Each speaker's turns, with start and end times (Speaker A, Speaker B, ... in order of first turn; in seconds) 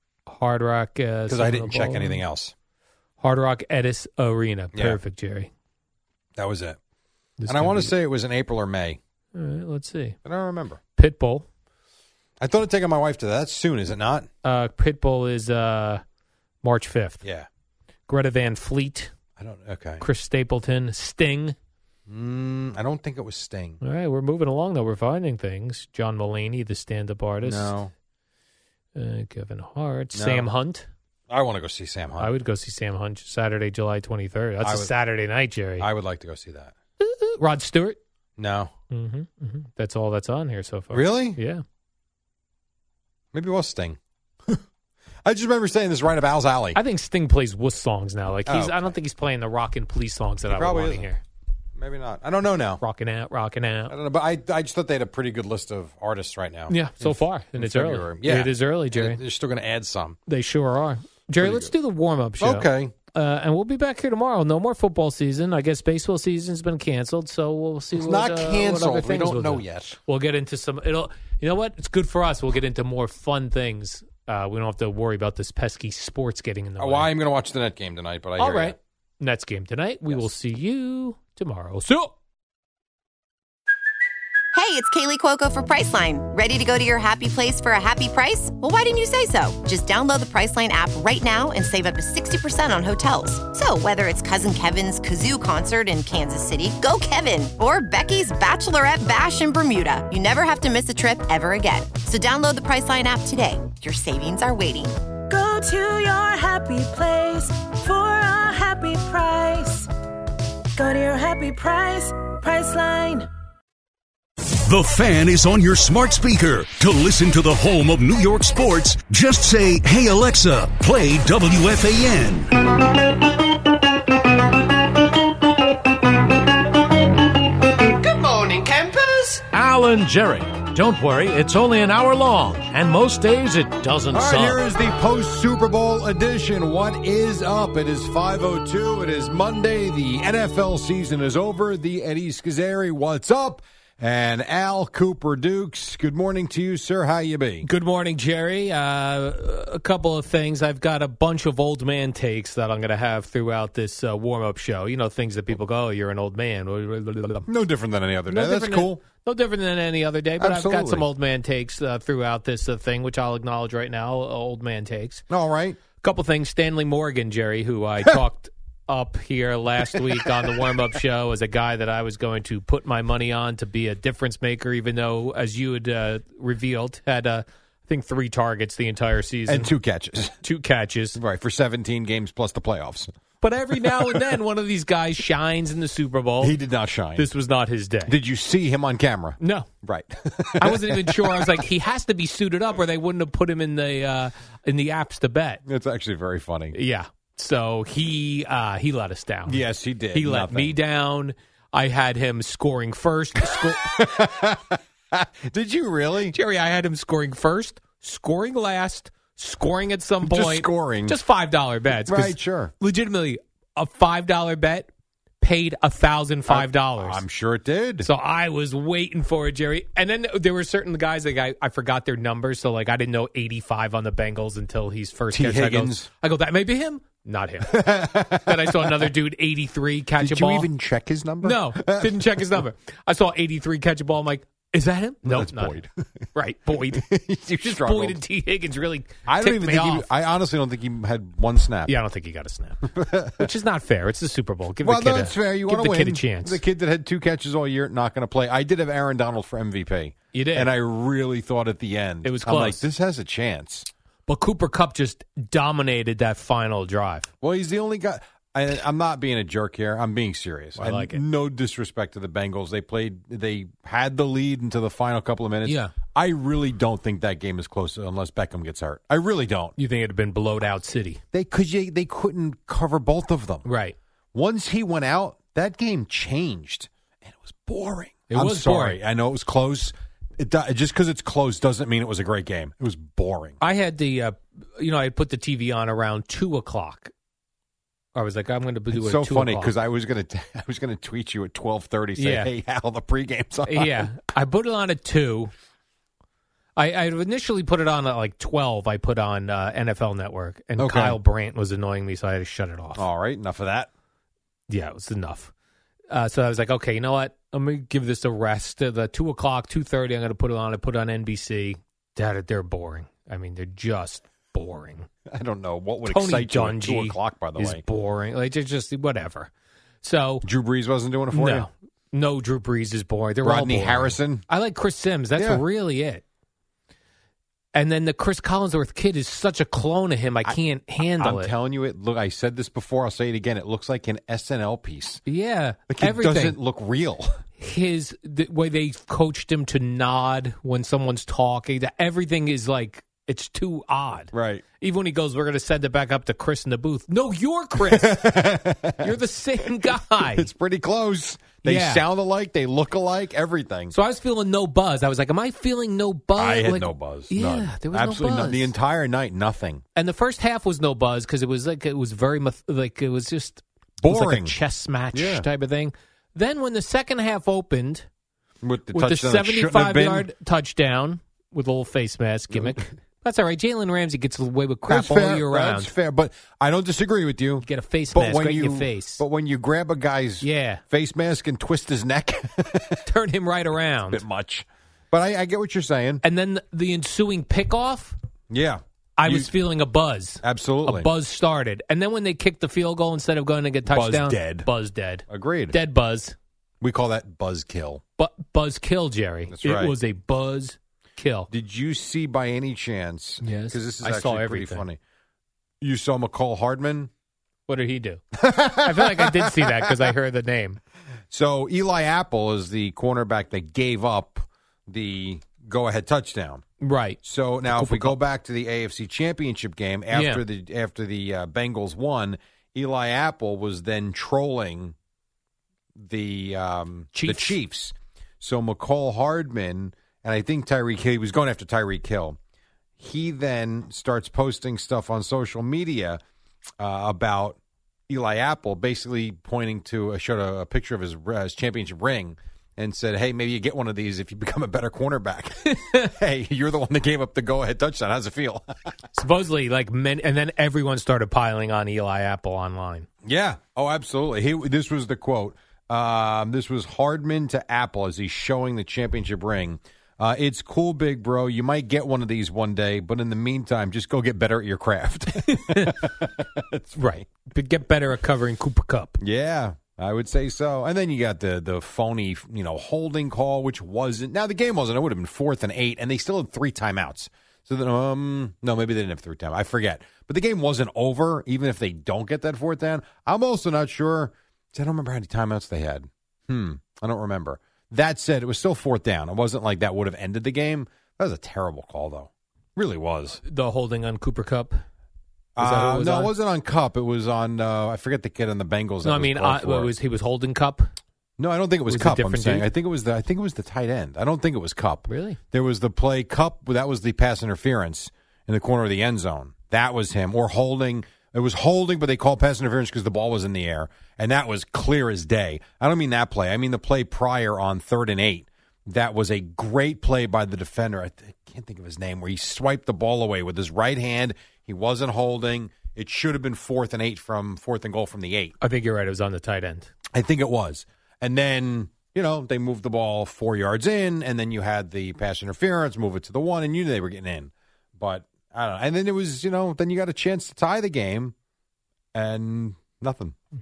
Speaker A: 0.3-2.2, 3.2-5.5, 7.4-7.9, 9.3-10.2, 11.0-11.4, 14.4-16.0, 16.6-17.2, 18.1-19.1, 20.0-21.6, 23.8-27.7, 28.9-30.9, 32.2-35.9, 37.0-38.0, 38.9-41.6, 46.7-51.2, 52.8-53.9, 56.7-59.2, 60.3-77.1, 78.4-82.1, 147.6-157.5, 158.3-165.2, 166.0-179.7, 180.4-181.2, 183.4-186.6, 187.2-188.1, 189.4-189.7, 190.6-195.6, 196.7-199.6, 200.1-204.0, 206.3-214.9, 215.4-217.2, 218.0-227.8, 228.4-230.7, 231.4-235.8, 236.3-237.1, 237.6-240.1, 241.9-246.6, 250.3-250.7, 252.2-252.8, 254.3-257.3, 260.8-261.2, 265.6-265.9, 269.8-271.2, 273.6-273.9, 278.3-279.0, 283.6-287.1, 288.1-289.7, 292.2-292.5, 293.7-295.5, 296.8-303.0, 304.7-305.5, 306.1-315.1, 316.1-319.5, 320.0-320.4, 321.3-326.2, 327.7-331.5, 335.2-336.6, 337.6-348.2, 349.0-350.5, 351.6-352.0, 353.9-358.7, 359.9-368.1, 368.9-375.9, 377.6-379.2, 380.4-380.8, 383.1-384.2, 386.2-388.1, 389.2-396.4, 398.2-401.5, 403.4-404.8, 407.7-410.8, 416.8-418.2, 420.1-420.4, 427.1-427.5, 449.1-453.1, 465.5-466.1, 466.9-469.2, 493.4-494.8, 495.6-496.3, 499.0-500.9, 501.9-502.7, 505.1-505.4, 528.6-529.9
Speaker B: 1.3-2.5, 6.3-6.8, 7.5-9.0, 10.2-10.8, 12.4-14.3, 19.4-20.0, 22.1-23.8, 27.4-27.9, 30.1-30.5, 31.3-32.3, 34.6-34.9, 35.8-36.7, 38.4-38.7, 40.9-41.4, 43.3-44.6, 45.2-46.8, 48.5-48.9, 50.5-51.1, 51.8-52.8, 53.9-60.2, 61.4-61.7, 62.4-62.9, 68.0-70.0, 76.8-78.8, 134.1-147.7, 157.5-159.0, 160.4-161.0, 165.3-165.8, 170.2-170.7, 179.5-180.3, 181.2-183.1, 186.4-187.3, 188.1-191.6, 195.7-196.8, 199.5-200.8, 203.4-206.3, 210.2-211.2, 212.1-212.7, 216.5-218.1, 225.3-226.1, 227.7-229.1, 230.2-232.6, 235.2-235.9, 236.9-238.2, 239.3-241.9, 242.9-243.5, 244.8-253.9, 257.4-269.7, 271.3-273.6, 274.3-283.6, 288.9-294.1, 300.8-301.2, 302.9-303.9, 315.3-317.8, 320.4-321.7, 323.4-324.4, 325.4-325.6, 331.2-335.2, 335.9-337.3, 344.3-344.6, 347.8-349.1, 350.3-353.9, 356.4-359.8, 364.0-364.5, 365.1-365.4, 368.6-370.3, 372.5-372.8, 374.9-383.0, 384.1-386.2, 388.5-389.5, 390.4-391.1, 393.9-394.7, 395.3-395.8, 396.8-398.0, 399.5-399.9, 401.5-405.0, 405.8-407.1, 408.3-410.1, 411.3-416.6, 417.2-424.9, 426.0-432.4, 433.0-436.2, 436.8-437.6, 438.1-448.7, 453.2-467.2, 469.2-493.4, 495.6-499.9, 501.4-528.5, 530.1-541.3, 542.1-543.3
Speaker C: 84.5-104.9
Speaker D: 105.3-109.9, 110.8-113.3
Speaker E: 114.5-122.6
Speaker F: 128.5-134.6